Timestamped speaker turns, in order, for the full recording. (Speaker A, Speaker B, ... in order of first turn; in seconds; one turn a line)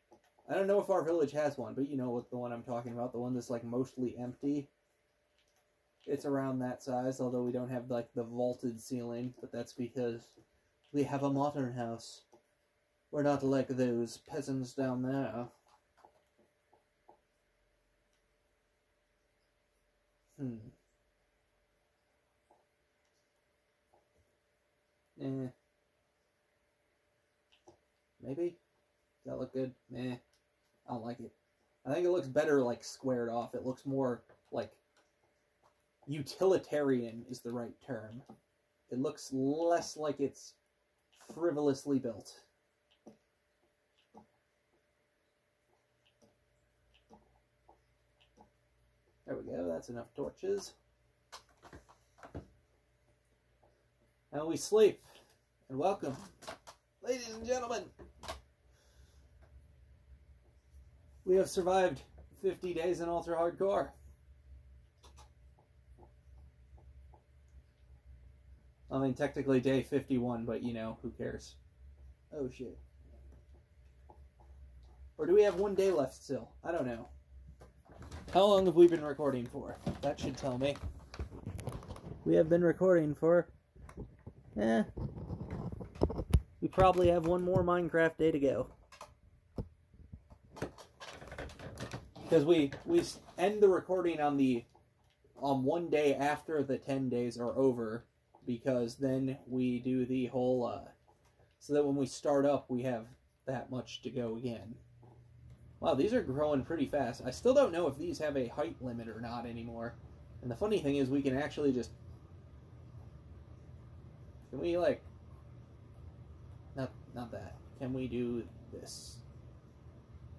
Speaker A: 0.5-4.7
Speaker A: 6.0-10.3
Speaker A: 10.9-12.2
Speaker A: 13.1-15.5
Speaker A: 20.4-20.7
Speaker A: 25.1-25.5
Speaker A: 28.2-28.6
Speaker A: 29.2-30.2
Speaker A: 30.9-34.8
Speaker A: 36.0-38.2
Speaker A: 38.9-40.6
Speaker A: 41.1-42.5
Speaker A: 49.2-50.7
Speaker A: 54.3-55.1
Speaker A: 55.7-56.3
Speaker A: 57.0-57.9
Speaker A: 61.2-63.9
Speaker A: 68.9-71.6
Speaker A: 72.3-72.8
Speaker A: 75.2-77.1
Speaker A: 78.3-80.8
Speaker A: 82.2-83.5
Speaker A: 84.5-84.9
Speaker A: 86.6-88.7
Speaker A: 92.3-94.7
Speaker A: 95.4-100.9
Speaker A: 101.6-104.8
Speaker A: 105.8-111.9
Speaker A: 114.4-115.1
Speaker A: 116.7-119.2